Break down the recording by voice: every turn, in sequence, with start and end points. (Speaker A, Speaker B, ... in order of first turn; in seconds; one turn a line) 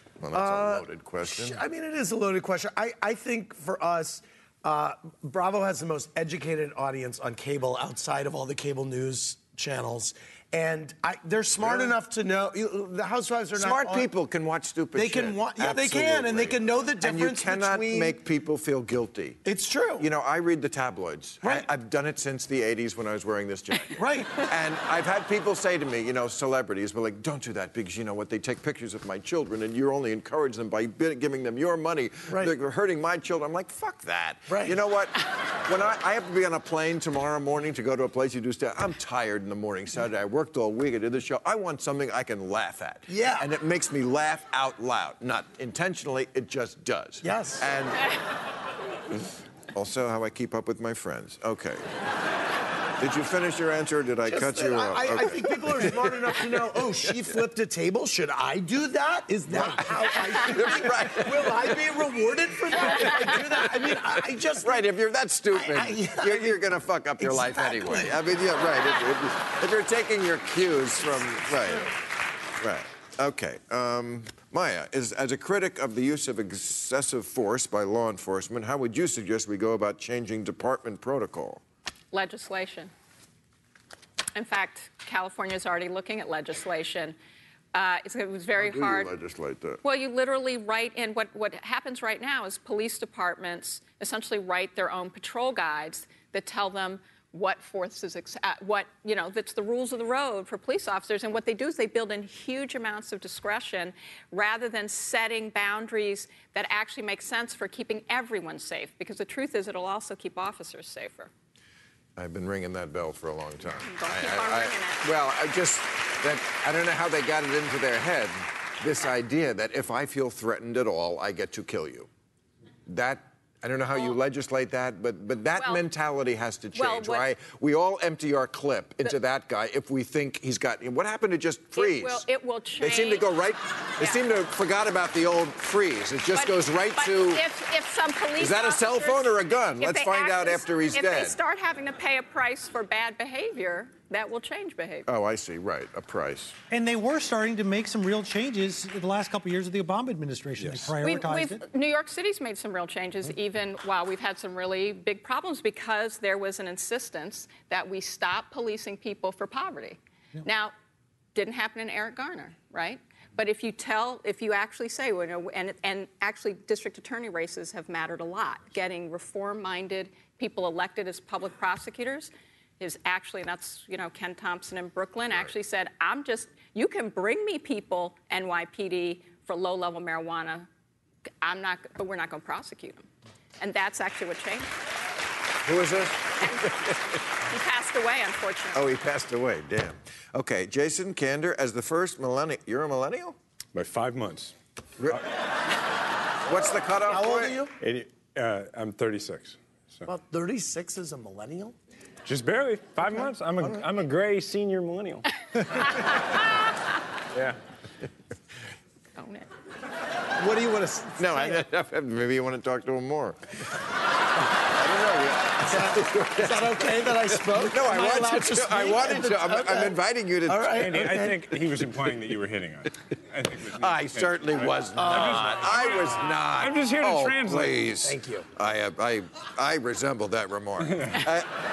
Speaker A: 0.2-1.6
Speaker B: 0.3-14.1
Speaker A: 11.6-11.9
Speaker A: 13.6-19.4
Speaker B: 14.9-18.1
Speaker B: 19.4-20.1
Speaker A: 20.0-48.1
Speaker B: 24.0-24.4
Speaker B: 34.5-34.8
Speaker B: 43.1-43.5
Speaker B: 47.2-47.7
Speaker A: 49.7-51.9
Speaker A: 53.0-56.4
Speaker B: 54.3-64.8
Speaker A: 59.5-61.8
Speaker A: 62.9-63.3
Speaker A: 63.9-71.9
Speaker B: 65.6-66.6
Speaker B: 67.2-68.1
Speaker A: 72.6-81.6
Speaker C: 82.1-82.9
Speaker C: 84.3-87.2
Speaker C: 87.7-89.1
Speaker A: 88.5-89.8
Speaker C: 89.8-111.3
Speaker A: 112.2-122.1
Speaker C: 113.8-115.0
Speaker A: 122.9-132.2
Speaker C: 125.6-125.8
Speaker C: 126.7-127.3
Speaker C: 131.7-133.3
Speaker A: 132.8-137.4
Speaker C: 136.3-145.1
Speaker A: 138.4-141.4
Speaker A: 145.1-146.5
Speaker D: 146.7-151.6
Speaker E: 150.6-150.9
Speaker C: 151.0-160.7
Speaker C: 161.3-180.7
Speaker C: 181.4-183.0
Speaker C: 183.6-184.7
Speaker A: 185.6-186.8
Speaker C: 186.4-186.8
Speaker C: 187.4-188.9
Speaker A: 188.7-193.3
Speaker E: 193.7-194.5
Speaker A: 196.4-197.6
Speaker B: 197.1-197.7
Speaker E: 197.8-200.1
Speaker B: 200.0-201.7
Speaker E: 202.2-206.0
Speaker C: 209.2-209.5
Speaker B: 210.4-211.6
Speaker A: 211.2-213.7
Speaker A: 214.6-221.0
Speaker B: 215.6-221.3
Speaker E: 220.7-227.8
Speaker A: 223.7-231.5
Speaker B: 225.0-225.6
Speaker B: 228.0-228.5